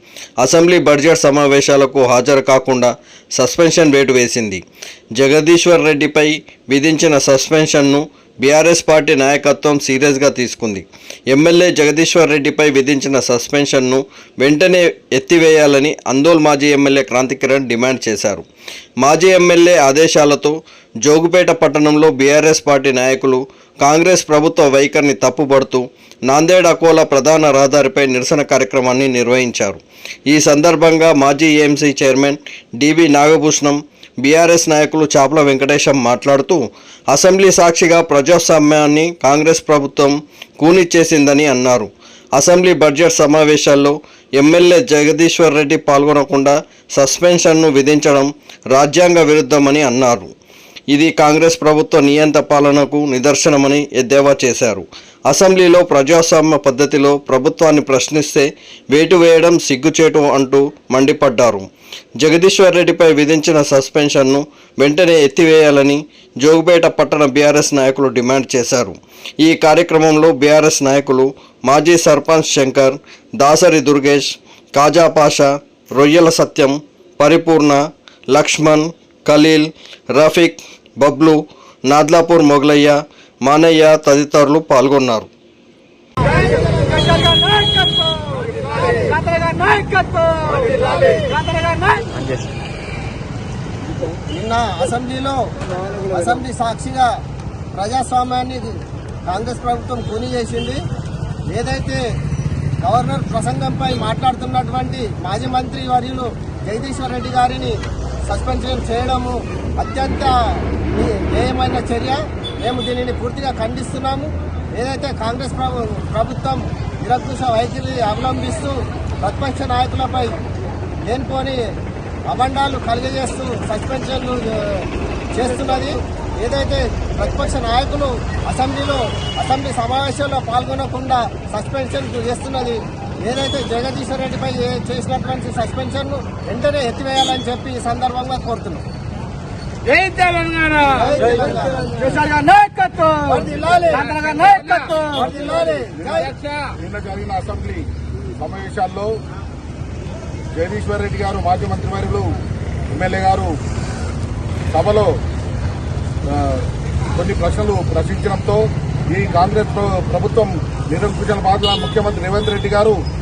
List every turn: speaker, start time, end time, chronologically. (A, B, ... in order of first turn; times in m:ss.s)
0:00.4-0:04.6 A
0:05.2-0:18.5 A
0:19.0-0:50.3 A
0:50.9-1:01.7 A
1:02.2-1:17.8 A
1:18.3-1:25.3 A
1:27.2-1:28.4 B
1:29.0-1:30.7 B
1:30.8-1:31.2 C
1:31.4-1:32.2 B
1:34.3-1:37.2 C
1:37.7-1:40.8 C
1:41.5-1:42.0 C
1:42.8-2:00.4 C
2:01.1-2:01.7 C
2:02.3-2:18.9 C
2:19.9-2:20.8 B
2:20.8-2:22.4 C
2:22.3-2:23.1 B
2:23.0-2:26.4 C
2:26.7-2:29.2 D
2:30.6-2:32.4 D
2:32.9-2:33.6 D
2:34.7-2:35.2 D
2:36.3-2:43.0 D